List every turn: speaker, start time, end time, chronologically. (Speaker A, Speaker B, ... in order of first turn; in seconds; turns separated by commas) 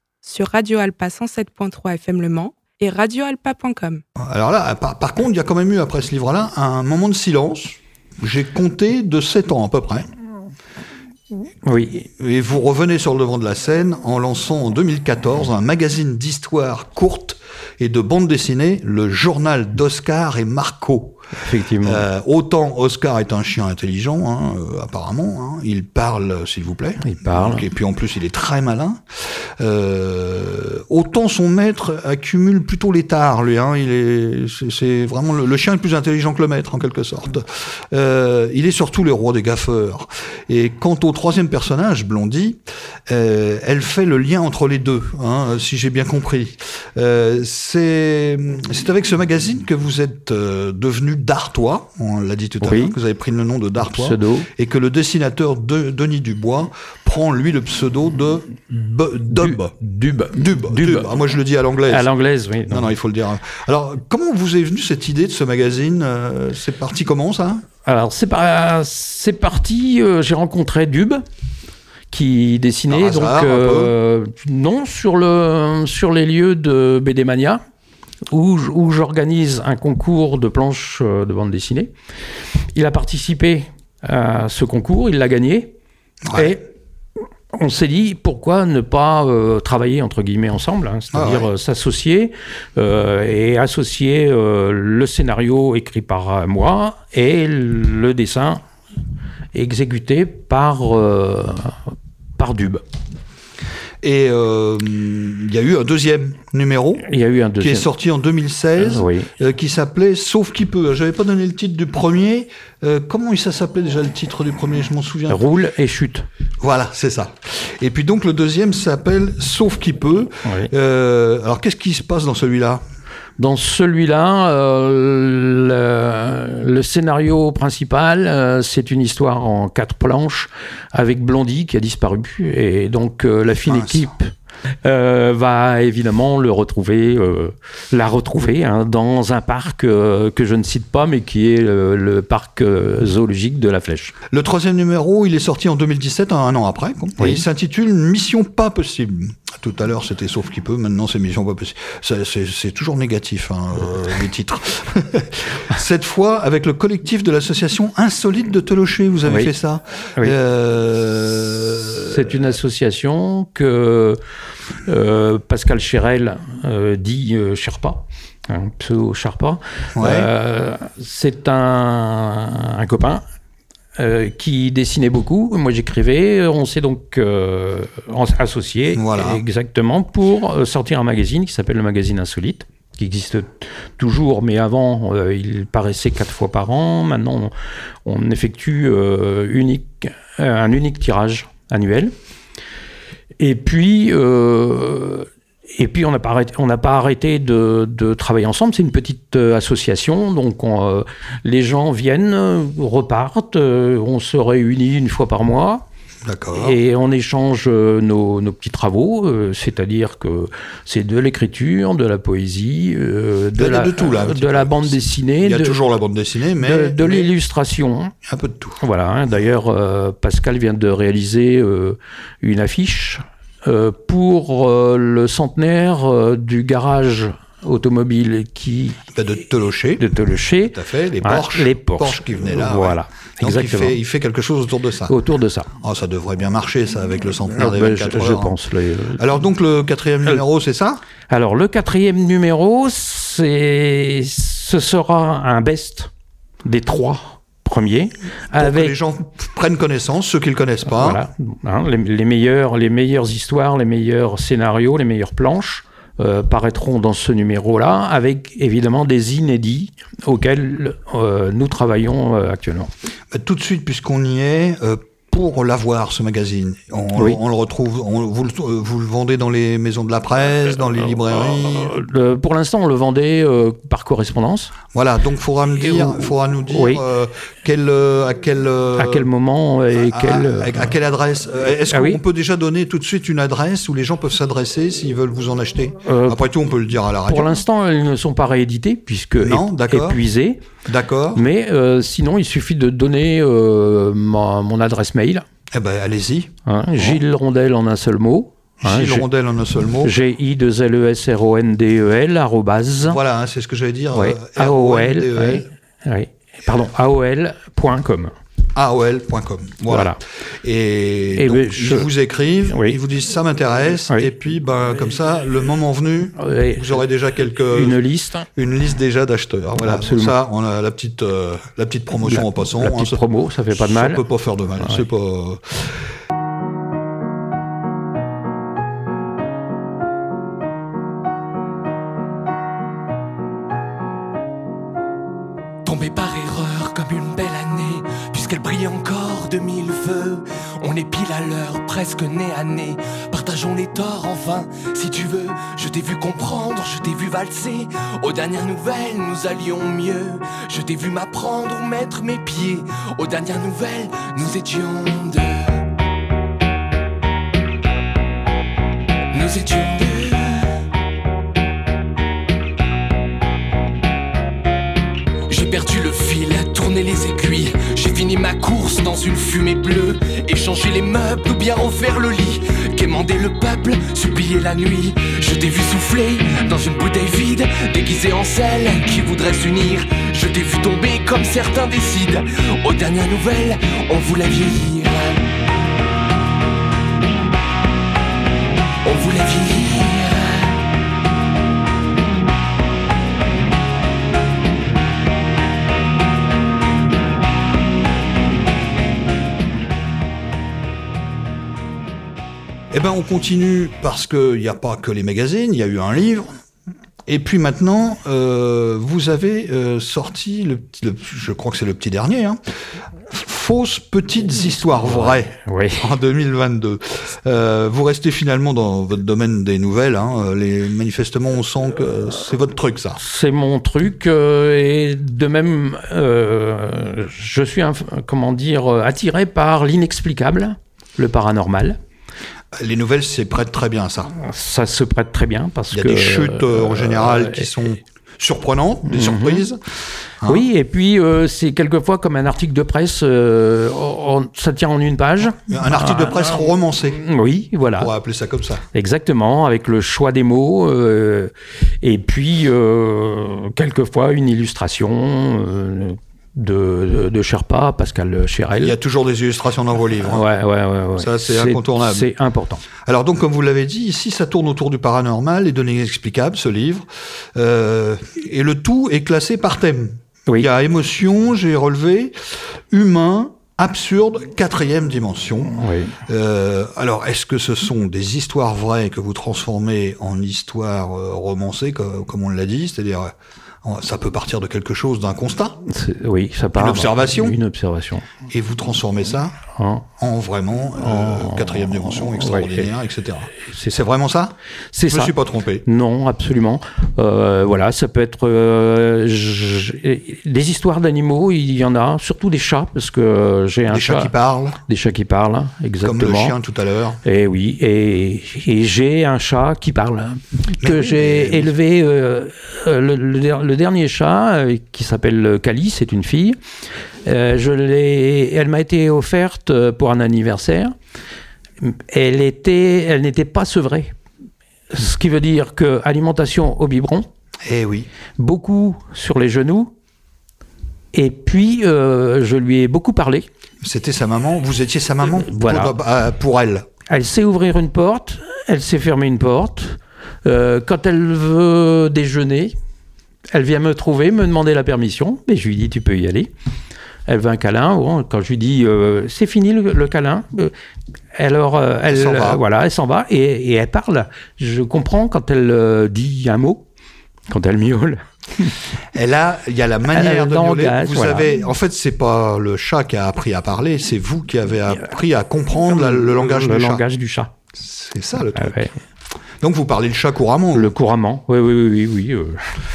Speaker A: 0.2-4.0, Speaker B: 4.2-10.1, Speaker C: 11.6-12.1, Speaker B: 12.2-21.2, Speaker C: 21.4-22.0, Speaker B: 21.8-59.8, Speaker C: 27.0-27.6, Speaker C: 52.6-53.0, Speaker C: 53.9-54.5, Speaker C: 59.3-61.1, Speaker B: 60.3-62.1, Speaker C: 61.9-62.9, Speaker B: 62.7-67.6, Speaker C: 67.8-71.2, Speaker C: 72.1-77.6, Speaker B: 72.9-73.9, Speaker C: 78.3-81.9, Speaker C: 82.7-85.7, Speaker B: 86.2-86.6, Speaker C: 86.3-86.6, Speaker C: 87.5-98.6, Speaker B: 91.1-91.5, Speaker C: 99.5-101.8, Speaker C: 102.4-102.8, Speaker B: 104.0-107.0, Speaker C: 107.0-107.9, Speaker B: 107.6-115.4, Speaker C: 108.8-109.3, Speaker C: 115.3-116.3, Speaker B: 116.6-122.8, Speaker C: 120.4-120.7, Speaker C: 123.4-134.3, Speaker B: 133.6-134.1, Speaker C: 134.8-144.1, Speaker B: 144.3-162.4, Speaker C: 147.2-147.4, Speaker C: 159.2-159.5, Speaker C: 162.0-164.2, Speaker C: 164.8-173.2, Speaker B: 169.9-170.3, Speaker C: 174.0-187.5, Speaker B: 178.9-179.4, Speaker C: 188.0-192.1, Speaker C: 193.4-205.8, Speaker B: 206.2-206.8, Speaker C: 206.5-215.8, Speaker B: 213.6-217.3, Speaker C: 216.6-218.1, Speaker B: 218.2-218.8, Speaker C: 218.8-229.1, Speaker B: 229.1-230.2, Speaker C: 230.0-234.0, Speaker B: 230.7-235.1, Speaker C: 235.1-235.7, Speaker B: 235.8-238.5, Speaker C: 237.6-239.2, Speaker B: 239.2-241.0, Speaker C: 241.3-246.1, Speaker C: 246.6-248.9, Speaker B: 248.5-251.2, Speaker C: 250.8-262.9, Speaker B: 263.3-271.9, Speaker C: 271.6-274.7, Speaker B: 274.9-279.3, Speaker C: 275.8-277.0, Speaker C: 278.9-280.9, Speaker B: 279.9-287.6, Speaker C: 281.9-282.2, Speaker C: 286.0-286.4, Speaker C: 287.3-290.6, Speaker B: 289.4-290.2, Speaker B: 290.8-291.4, Speaker C: 291.3-295.4, Speaker B: 295.7-297.2, Speaker C: 296.6-299.2, Speaker B: 298.8-300.1, Speaker C: 300.0-303.2, Speaker B: 303.0-305.7, Speaker C: 304.1-308.3, Speaker B: 308.7-318.0, Speaker C: 309.9-310.2, Speaker C: 311.4-312.1, Speaker C: 312.7-313.0, Speaker C: 316.4-317.0, Speaker C: 317.6-318.5, Speaker B: 318.5-325.8, Speaker C: 319.8-320.4, Speaker C: 322.2-324.2, Speaker D: 335.8-355.8, Speaker D: 359.3-360.8, Speaker D: 365.5-385.5, Speaker D: 389.0-390.8, Speaker B: 402.9-406.5, Speaker B: 407.3-412.6, Speaker B: 413.3-423.2, Speaker C: 415.0-416.1, Speaker C: 423.2-432.0, Speaker B: 432.7-434.3, Speaker C: 434.3-437.9, Speaker B: 435.9-439.8, Speaker C: 439.1-439.7, Speaker C: 440.4-448.1, Speaker B: 445.5-447.2, Speaker B: 448.0-448.8, Speaker C: 448.9-458.9, Speaker B: 458.8-460.5, Speaker C: 460.2-462.8, Speaker B: 461.1-462.3, Speaker B: 463.0-485.8, Speaker C: 475.8-476.1, Speaker C: 485.9-488.3, Speaker B: 486.7-487.6, Speaker B: 488.5-489.6, Speaker C: 489.7-490.1, Speaker B: 490.2-494.5, Speaker C: 491.0-492.9, Speaker C: 493.7-493.9, Speaker C: 494.9-495.3, Speaker B: 495.1-495.8, Speaker C: 495.8-504.3, Speaker B: 503.9-504.8, Speaker C: 504.9-506.5, Speaker B: 506.0-507.2, Speaker C: 507.2-516.6, Speaker B: 510.8-511.7, Speaker C: 517.2-520.9, Speaker C: 521.8-524.1, Speaker C: 524.9-527.3, Speaker B: 527.6-528.1, Speaker C: 528.4-529.9, Speaker C: 531.1-533.5, Speaker B: 533.8-536.9, Speaker C: 535.4-535.9, Speaker C: 537.1-542.7, Speaker C: 543.5-546.5, Speaker C: 547.3-550.7, Speaker C: 551.3-556.9, Speaker B: 552.1-552.6, Speaker C: 557.5-558.7, Speaker B: 559.1-567.0, Speaker C: 560.1-561.5, Speaker C: 565.9-567.5, Speaker B: 567.7-568.8, Speaker C: 568.5-568.9, Speaker B: 569.6-570.9, Speaker C: 570.7-572.7